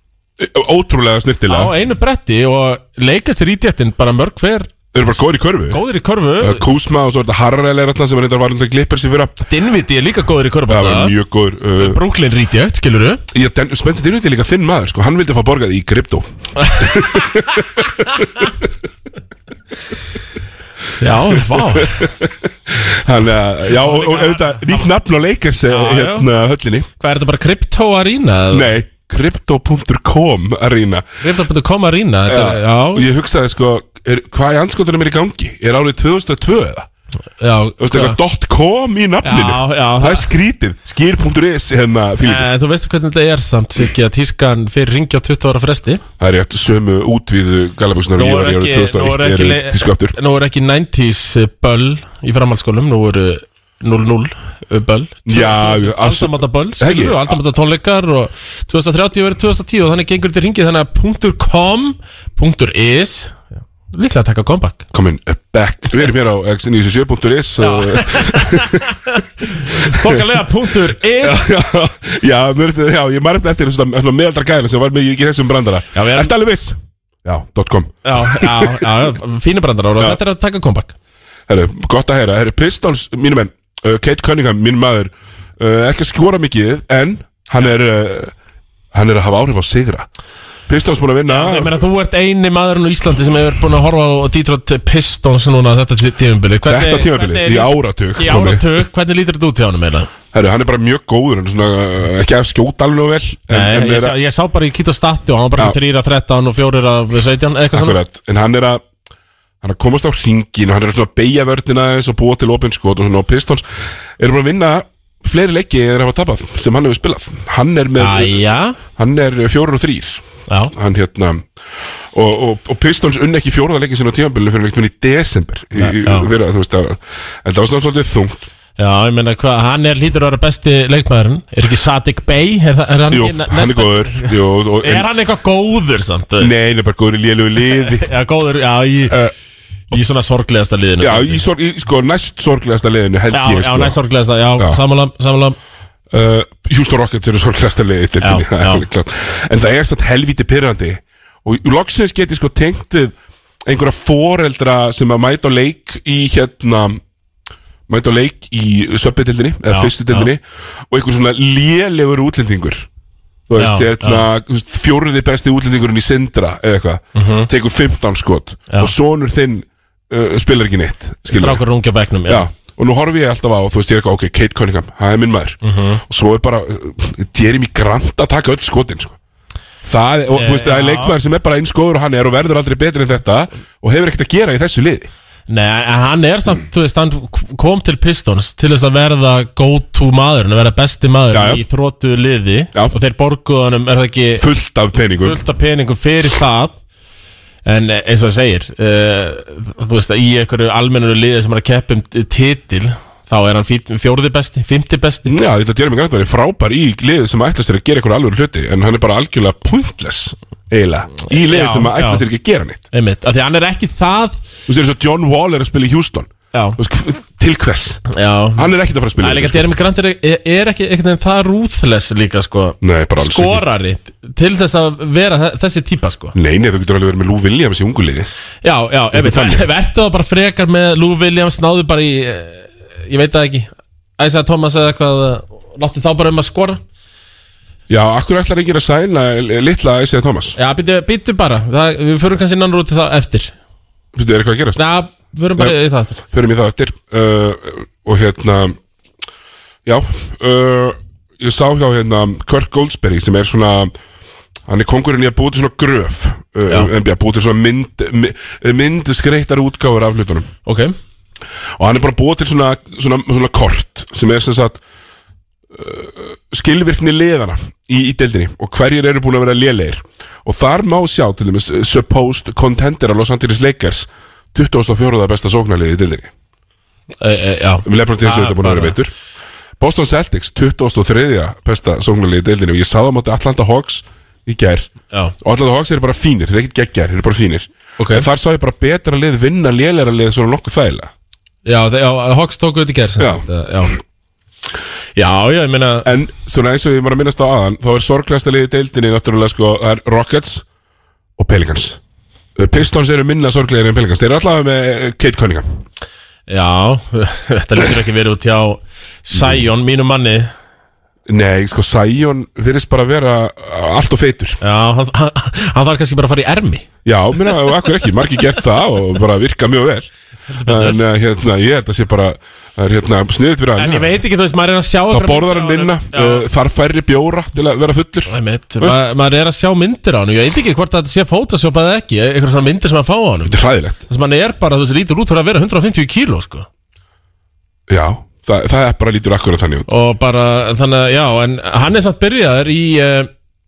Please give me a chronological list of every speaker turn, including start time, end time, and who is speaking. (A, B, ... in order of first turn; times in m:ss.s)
0:00.4-0:01.7 A
0:01.5-0:04.7 B
0:04.9-0:05.8 A
0:05.7-0:06.6 B
0:06.4-0:09.4 A
0:09.5-0:11.2 B
0:10.7-0:12.0 A
0:11.8-0:13.2 B
0:13.3-0:18.5 A
0:16.7-0:17.2 B
0:21.0-0:22.1 B
0:21.3-0:26.9 A
0:23.7-0:24.8 B
0:25.7-0:26.3 B
0:27.0-0:28.7 B
0:28.5-0:31.1 A
0:31.2-0:33.1 B
0:32.3-0:36.9 A
0:37.4-0:38.2 B
0:37.8-0:42.5 A
0:39.2-0:40.3 B
0:42.2-0:46.0 B
0:46.2-0:50.2 A
0:48.2-1:04.8 B
0:55.3-0:57.4 A
1:04.9-1:08.9 A
1:07.6-1:11.5 B
1:09.6-1:10.2 A
1:11.2-1:19.0 A
1:15.9-1:16.3 B
1:18.0-1:21.0 B
1:21.5-1:28.3 A
1:28.9-1:30.1 A
1:30.7-1:31.8 A
1:31.3-1:40.1 B
1:36.7-1:38.7 A
1:40.3-1:44.2 A
1:43.5-1:48.0 B
1:47.7-1:48.8 A
1:49.6-1:53.7 A
1:54.2-1:58.4 A
1:58.0-1:58.8 B
1:59.0-2:01.5 A
2:00.5-2:00.7 B
2:02.1-2:08.5 A
2:05.8-2:06.3 B
2:08.8-2:16.5 B
2:13.1-2:15.1 A
2:16.4-2:18.1 A
2:17.6-2:19.3 B
2:19.1-2:19.3 A
2:19.9-2:21.4 B
2:21.0-2:24.0 A
2:23.3-2:25.6 B
2:26.1-2:37.0 A
2:28.2-2:28.8 B
2:37.9-2:42.9 A
2:39.7-2:40.3 B
2:43.5-2:51.6 A
2:43.6-2:44.3 B
2:47.2-2:47.5 B
2:51.3-2:52.5 B
2:52.3-2:59.2 A
2:55.6-2:56.0 B
2:59.8-3:05.1 A
3:00.3-3:01.2 B
3:05.5-3:14.5 B
3:11.3-3:11.6 A
3:14.4-3:15.4 A
3:15.2-3:16.7 B
3:17.6-3:25.3 B
3:25.3-3:32.9 A
3:31.2-3:32.2 B
3:32.9-3:34.4 B
3:34.7-3:38.0 A
3:36.5-3:36.8 B
3:38.1-3:46.4 B
3:38.6-3:39.8 A
3:42.8-3:43.6 A
3:46.4-3:48.3 A
3:48.6-3:56.8 B
3:49.1-3:49.6 A
3:57.9-4:00.6 A
4:00.6-4:03.5 B
4:04.2-4:04.8 A
4:04.8-4:06.2 B
4:06.3-4:08.8 A
4:09.8-4:14.0 A
4:14.7-4:20.5 A
4:20.7-4:21.0 B
4:21.8-4:24.8 A
4:25.7-4:36.3 A
4:37.2-4:39.0 B
4:37.8-4:39.1 A
4:39.8-4:51.1 A
4:48.0-4:48.3 B
4:51.7-4:54.0 B
4:53.2-4:53.5 A
4:55.2-4:56.1 B
4:56.0-5:00.7 A
5:01.4-5:02.0 A
5:02.6-5:05.8 A
5:06.5-5:10.5 B
5:09.3-5:09.6 A
5:11.3-5:14.6 A
5:14.6-5:16.9 B
5:17.0-5:20.1 A
5:20.5-5:21.0 B
5:20.6-5:24.2 A
5:23.8-5:26.5 B
5:25.1-5:29.1 A
5:28.3-5:33.6 B
5:33.4-5:34.0 A
5:34.1-5:36.7 B
5:37.9-5:39.9 A
5:39.9-5:43.3 B